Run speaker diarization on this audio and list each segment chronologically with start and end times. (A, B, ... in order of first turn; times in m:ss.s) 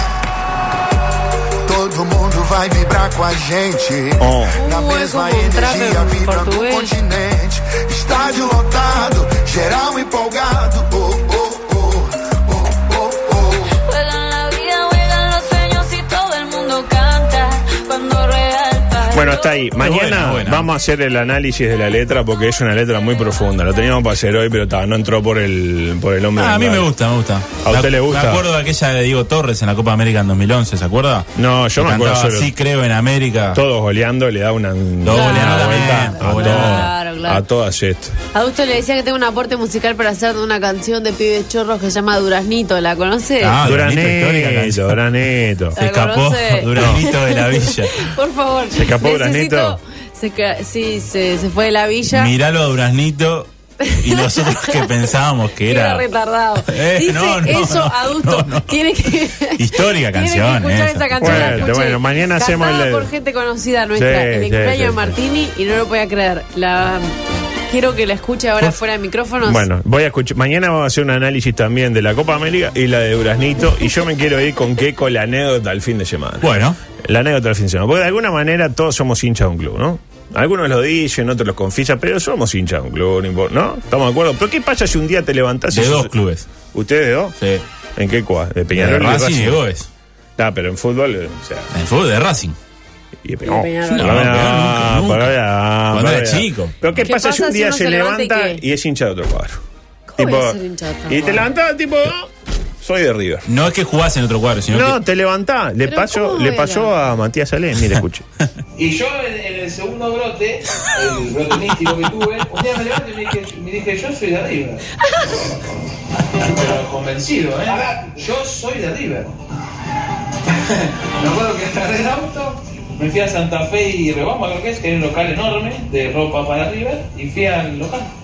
0:01.6-0:13.8 A
0:04.2-0:04.6 B
0:04.5-0:07.0 C
0:13.8-0:19.4 D
0:19.0-0:26.9 B
0:19.8-0:20.7 E
0:26.4-0:33.6 E
0:27.6-0:28.5 B
0:31.4-0:32.5 B
0:33.5-0:38.2 B
0:35.0-0:36.9 E
0:35.1-0:37.4 C
0:38.3-0:43.6 C
0:43.4-0:45.0 E
0:43.6-0:45.8 B
0:45.8-0:52.3 C
0:45.8-0:48.1 E
0:46.7-0:47.0 B
0:48.7-0:49.8 B
0:52.1-0:56.1 E
0:53.9-0:54.9 C
0:55.6-1:07.2 C
0:56.7-0:58.8 E
0:59.5-1:01.7 E
1:01.2-1:03.1 B
1:04.0-1:05.2 B
1:07.7-1:09.7 C
1:09.4-1:26.1 B
1:16.4-1:16.8 E
1:25.7-1:26.5 E
1:26.7-1:27.4 B
1:27.4-1:27.6 E
1:28.0-1:29.6 B
1:28.7-1:29.9 E
1:30.4-1:31.7 B
1:31.7-1:32.6 E
1:33.2-1:39.6 B
1:33.4-1:34.3 C
1:33.9-1:35.4 E
1:35.9-1:37.1 E
1:37.0-1:38.6 C
1:40.1-1:41.5 C
1:40.2-1:40.6 B
1:41.1-1:42.3 B
1:42.8-1:43.5 B
1:43.5-1:45.0 E
1:44.7-1:48.2 B
1:45.8-1:46.9 C
1:48.8-1:53.3 F
1:51.5-1:52.5 E
1:53.3-1:54.5 E
1:56.5-1:59.1 F
2:01.2-2:02.5 F
2:03.8-2:04.7 F
2:05.2-2:07.9 F